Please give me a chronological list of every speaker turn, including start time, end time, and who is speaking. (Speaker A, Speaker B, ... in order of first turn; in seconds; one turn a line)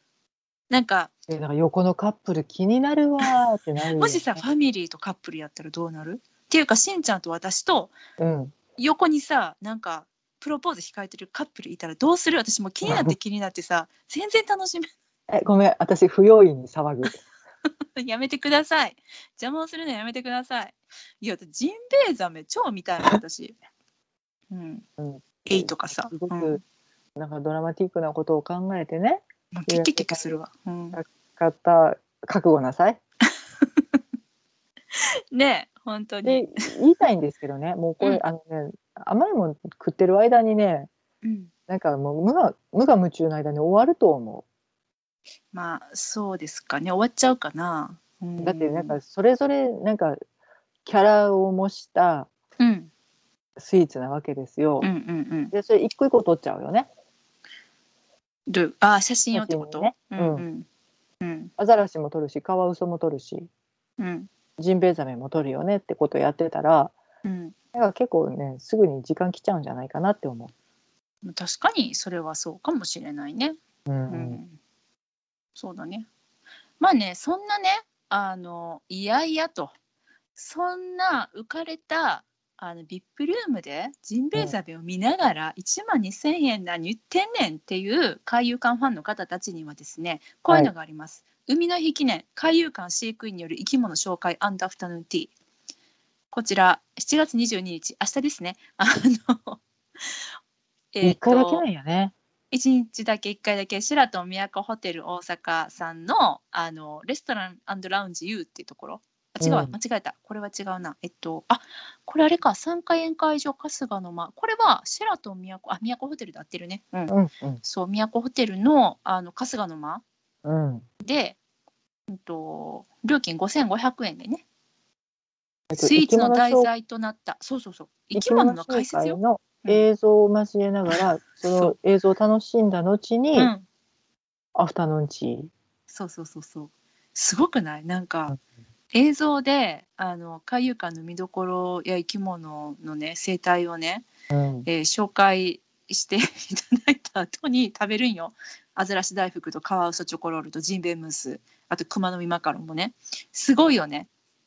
Speaker A: 0.7-1.1
Speaker B: 1.3-4.4
Speaker A: 3.9-8.0
Speaker B: 8.2-8.5
Speaker A: 8.8-14.9
Speaker B: 12.8-13.2
Speaker B: 15.3-17.2
Speaker A: 18.0-23.6
Speaker A: 24.5-24.9
Speaker B: 25.0-26.6
Speaker A: 25.5-26.6
Speaker B: 27.2-30.3
Speaker A: 29.5-31.0
Speaker B: 30.9-33.0
Speaker A: 35.0-36.7
Speaker B: 36.2-40.9
Speaker A: 41.2-41.5
Speaker B: 41.7-44.5
Speaker A: 45.5-49.0
Speaker B: 48.4-50.2
Speaker B: 50.9-52.3
Speaker A: 52.6-52.9
Speaker B: 53.6-54.9
Speaker A: 54.8-55.5
Speaker B: 55.5-56.9
Speaker A: 58.5-60.7
Speaker B: 59.3-60.5
Speaker A: 61.2-61.5
Speaker B: 61.6-63.5
Speaker A: 64.0-64.3
Speaker B: 64.6-67.0
Speaker A: 67.2-67.5
Speaker B: 67.7-70.5
Speaker A: 71.2-73.6
Speaker B: 73.9-74.4
Speaker A: 74.1-74.6
Speaker A: 75.6-76.1
Speaker A: 76.8-79.7
Speaker A: 80.4-95.3
Speaker A: 96.3-99.6
Speaker A: 100.9-101.7
Speaker B: 101.0-102.1
Speaker A: 102.5-120.0
Speaker B: 109.4-109.7
Speaker B: 117.1-117.6
Speaker B: 120.5-120.8
Speaker A: 121.0-121.4
Speaker A: 122.1-124.4
Speaker B: 125.7-126.7
Speaker A: 125.8-129.8
Speaker B: 128.2-133.5
Speaker A: 130.9-131.8
Speaker A: 133.4-133.6
Speaker B: 134.6-135.5
Speaker A: 135.9-138.3
Speaker A: 138.9-144.1
Speaker B: 144.3-144.7
Speaker A: 144.7-154.1